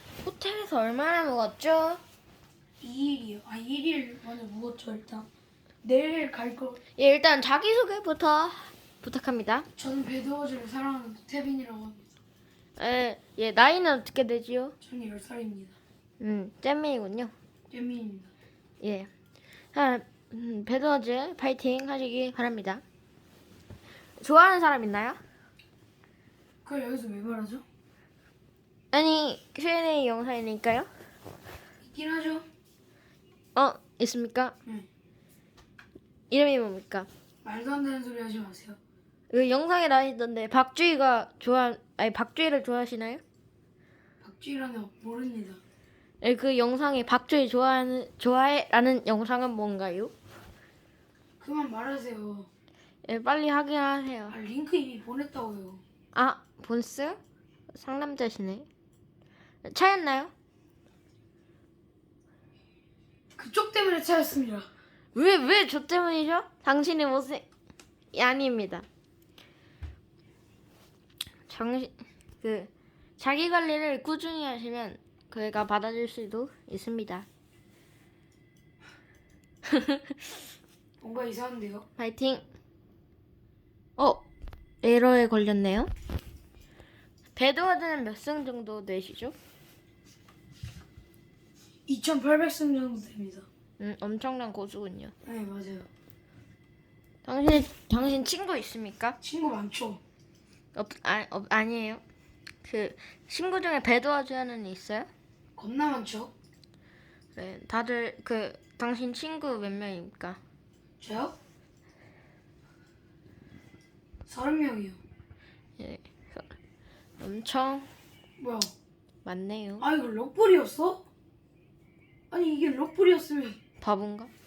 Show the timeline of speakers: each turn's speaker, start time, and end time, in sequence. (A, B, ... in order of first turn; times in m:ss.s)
0:00.2-0:02.0 A
0:02.8-0:05.3 B
0:05.8-0:06.8 B
0:07.0-0:09.7 A
0:09.8-0:12.0 B
0:12.8-0:14.7 A
0:14.8-0:15.8 B
0:16.2-0:17.3 A
0:17.7-0:18.3 B
0:18.8-0:19.1 A
0:19.7-0:22.8 A
0:24.2-0:25.2 A
0:26.6-0:27.6 B
0:28.9-0:30.9 A
0:31.8-0:32.4 B
0:33.5-0:34.5 A
0:36.3-0:37.1 A
0:37.4-0:38.8 B
0:39.3-0:43.2 A
0:44.2-0:45.6 B
0:46.2-0:50.1 A
0:51.4-0:52.5 B
0:53.0-0:54.4 A
0:54.3-0:55.8 B
0:56.1-0:57.2 A
0:57.7-0:58.6 A
0:59.6-1:00.3 A
1:03.4-1:04.7 B
1:05.1-1:07.4 A
1:08.1-1:08.8 A
1:11.5-1:17.2 A
1:19.7-1:20.1 A
1:21.0-1:21.8 B
1:22.0-1:22.4 A
1:24.0-1:24.2 A
1:24.8-1:25.9 A
1:27.3-1:29.3 A
1:31.9-1:33.5 B
1:33.8-1:35.1 A
1:35.2-1:35.9 B
1:37.2-1:39.2 A
1:39.2-1:40.0 B
1:40.7-1:42.0 A
1:42.6-1:45.1 A
1:45.6-1:46.3 B
1:47.3-1:50.4 A
1:51.0-1:51.3 B
1:54.2-1:55.0 B
1:55.8-1:56.5 A
1:57.2-1:57.9 A
1:58.4-1:58.7 B
1:59.2-1:59.9 A
1:59.8-2:01.0 B
2:02.3-2:03.6 B
2:03.8-2:04.3 A